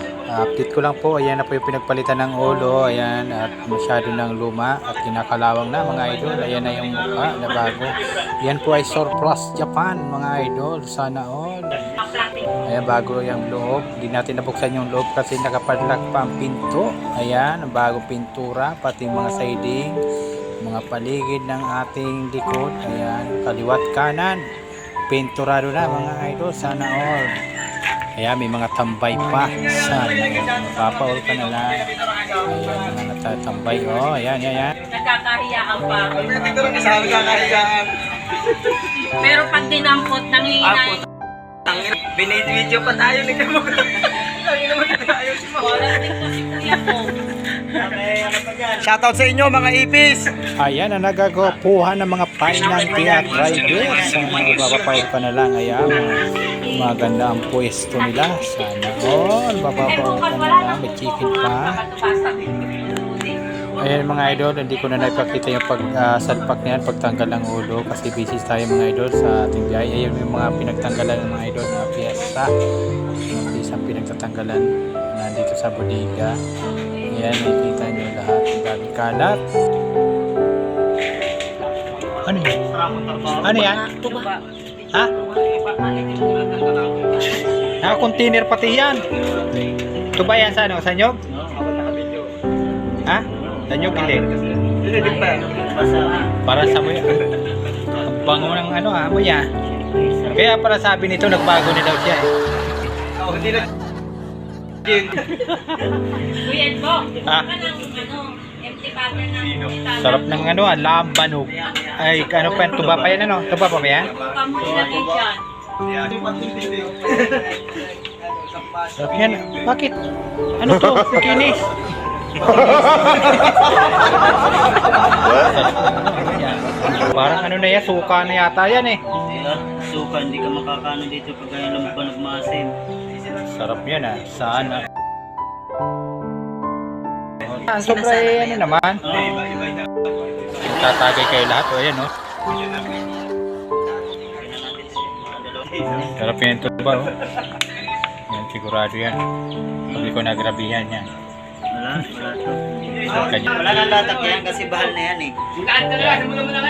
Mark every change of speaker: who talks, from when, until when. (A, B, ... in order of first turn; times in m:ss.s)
0:00.3-0:12.0 A
0:12.0-0:12.5 B
0:12.7-0:20.0 A
0:20.6-0:24.4 A
0:25.1-0:27.3 A
0:28.2-0:34.7 A
0:32.0-0:32.5 C
0:34.8-0:37.7 B
0:36.1-0:37.9 C
0:38.9-0:41.0 B
0:41.7-0:46.2 C
0:45.5-0:47.1 B
0:47.7-0:49.0 D
0:48.8-0:50.3 C
0:50.6-1:01.8 A
0:52.5-0:54.4 B
0:52.9-0:55.0 D
0:56.1-0:56.9 B
0:58.0-0:58.4 B
0:59.8-1:05.5 B
1:03.8-1:12.5 A
1:13.2-1:16.4 A
1:16.7-1:17.1 B
1:17.1-1:19.4 A
1:22.2-1:22.6 A
1:22.7-1:23.4 C
1:23.4-1:23.9 A
1:23.5-1:24.4 B
1:25.2-1:26.8 B
1:26.5-1:26.9 C
1:27.8-1:29.0 A
1:30.1-1:31.2 A
1:31.3-1:31.6 D
1:31.6-1:32.3 C
1:33.0-1:34.3 A
1:33.3-1:33.7 D
1:33.9-1:35.2 C
1:34.8-1:36.3 B
1:34.9-1:36.3 D
1:36.4-1:37.2 A
1:38.0-1:39.5 A
1:39.7-1:40.4 D
1:40.3-1:42.3 A
1:43.3-1:43.6 C
1:44.9-1:45.1 C
1:46.2-1:50.4 B
1:47.2-1:47.5 A
1:50.0-1:54.1 A
1:51.6-1:53.2 D
1:54.1-1:55.4 B
1:54.6-1:55.1 D
1:55.9-1:57.7 C
1:58.5-1:59.4 C
1:59.0-1:59.9 A
2:00.6-2:01.7 A
2:02.4-2:03.3 A
2:03.0-2:03.4 D
2:05.2-2:09.0 A
2:09.1-2:12.7 D
2:13.4-2:14.8 A
2:17.4-2:19.1 A
2:19.0-2:19.6 D
2:20.6-2:22.1 A
2:20.7-2:21.1 D
2:24.2-2:26.1 D
2:26.0-2:27.1 A
2:28.3-2:29.2 A
2:29.9-2:30.2 D
2:29.9-2:31.1 A
2:31.7-2:35.4 D
2:33.1-2:33.6 A
2:35.8-2:36.4 A